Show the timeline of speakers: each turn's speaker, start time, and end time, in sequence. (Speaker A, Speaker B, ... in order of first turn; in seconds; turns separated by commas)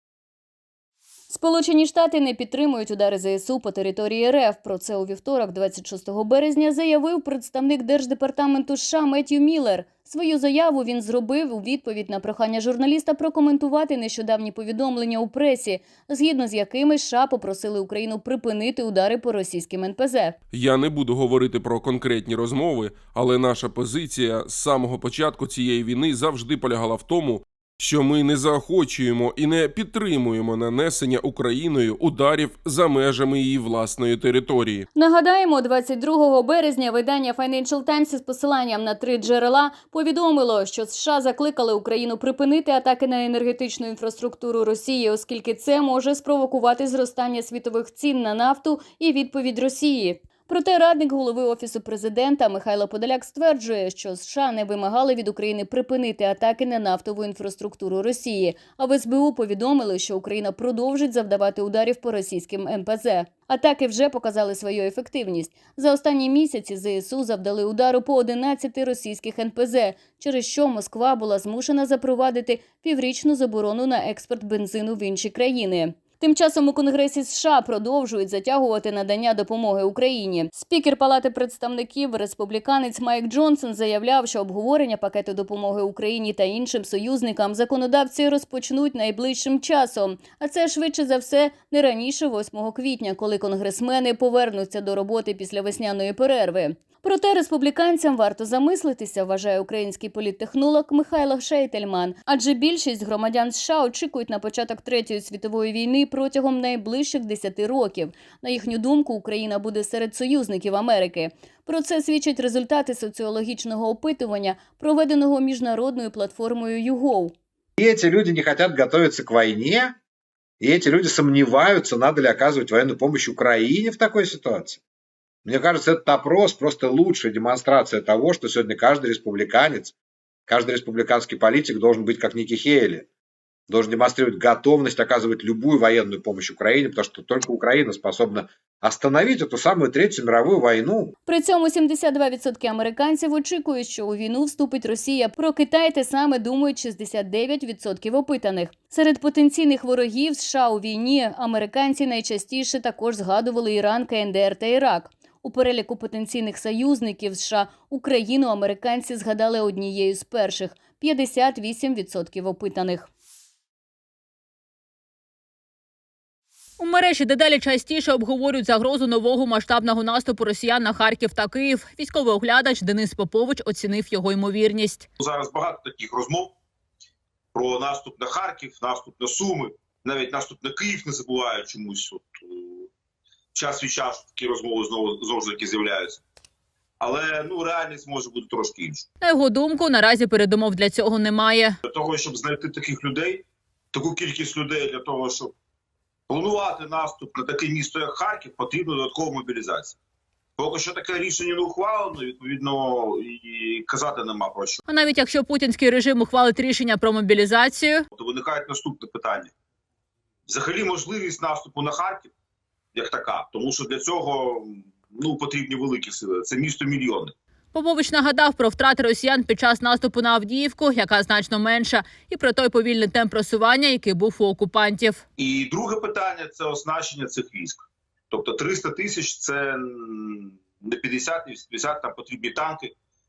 Speaker A: 1.3-20.4, Speaker B: 20.5-34.8, Speaker A: 35.0-117.3, Speaker C: 117.8-120.0, Speaker C: 120.6-124.8, Speaker C: 125.5-129.9, Speaker C: 130.5-133.1, Speaker C: 133.7-141.1, Speaker A: 141.3-163.1, Speaker D: 166.8-175.1, Speaker E: 175.2-176.6, Speaker E: 177.5-182.9, Speaker E: 183.5-186.2, Speaker E: 187.0-189.1, Speaker D: 189.2-191.8, Speaker E: 191.8-195.5, Speaker E: 196.3-200.0, Speaker E: 200.6-204.8, Speaker D: 204.9-208.1, Speaker E: 208.2-209.5, Speaker E: 210.5-212.3, Speaker E: 212.9-217.3, Speaker D: 217.7-225.2, Speaker E: 225.4-232.9